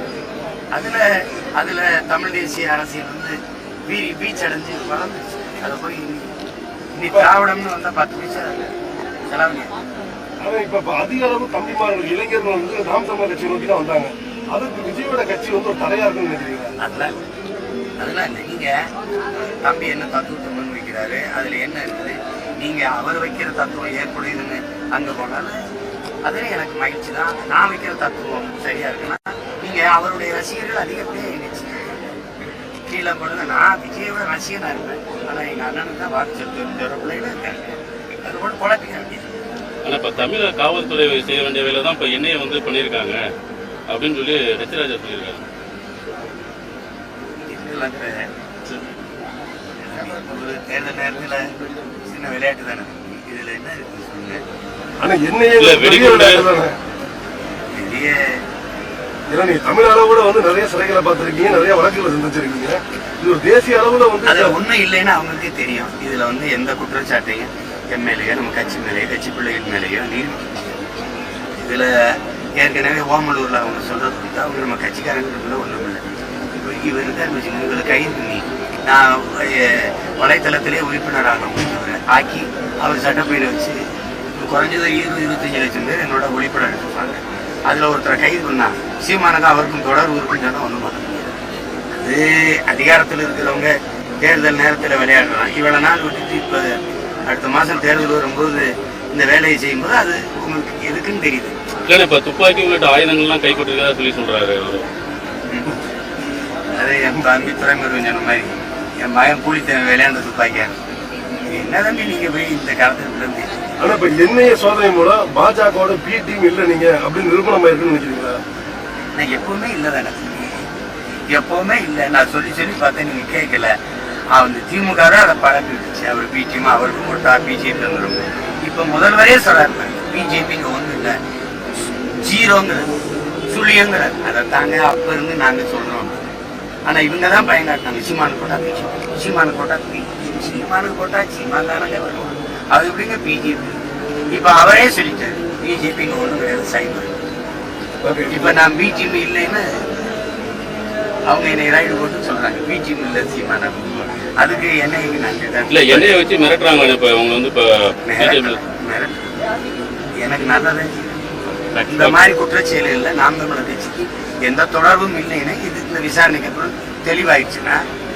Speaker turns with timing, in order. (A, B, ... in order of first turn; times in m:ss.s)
0:00.7-0:01.0 A
0:01.6-0:03.4 A
0:03.9-0:06.3 A
0:07.0-0:08.7 A
0:09.3-0:09.7 A
0:10.4-0:16.7 B
0:16.8-0:17.1 A
0:18.0-0:18.7 A
0:19.6-0:25.6 A
0:26.2-0:31.9 A
0:32.9-0:39.3 A
0:39.8-0:43.2 C
0:43.9-0:45.4 C
0:47.4-0:48.8 A
0:49.8-0:51.5 A
0:52.1-0:54.4 A
0:55.0-0:56.7 B
0:55.6-0:56.4 C
0:57.8-0:58.3 A
0:59.3-1:04.6 B
1:04.2-1:10.6 A
1:11.6-1:11.9 A
1:12.6-1:16.0 A
1:16.6-1:23.8 A
1:24.4-1:31.3 A
1:31.9-1:36.7 A
1:37.3-1:41.5 A
1:41.8-1:44.8 C
1:45.5-1:45.8 A
1:46.7-1:48.5 A
1:49.0-1:50.7 A
1:51.5-1:53.8 A
1:53.8-1:58.4 B
1:59.2-2:00.6 A
2:01.3-2:03.7 A
2:04.3-2:11.2 A
2:12.2-2:12.9 A
2:13.5-2:16.2 A
2:16.9-2:23.8 A
2:24.3-2:27.2 A
2:28.0-2:28.6 B
2:28.3-2:29.6 A
2:31.3-2:36.1 A
2:35.7-2:37.6 C
2:38.1-2:39.2 A
2:38.2-2:38.6 C
2:40.2-2:41.2 A
2:41.5-2:42.2 C
2:41.9-2:47.8 A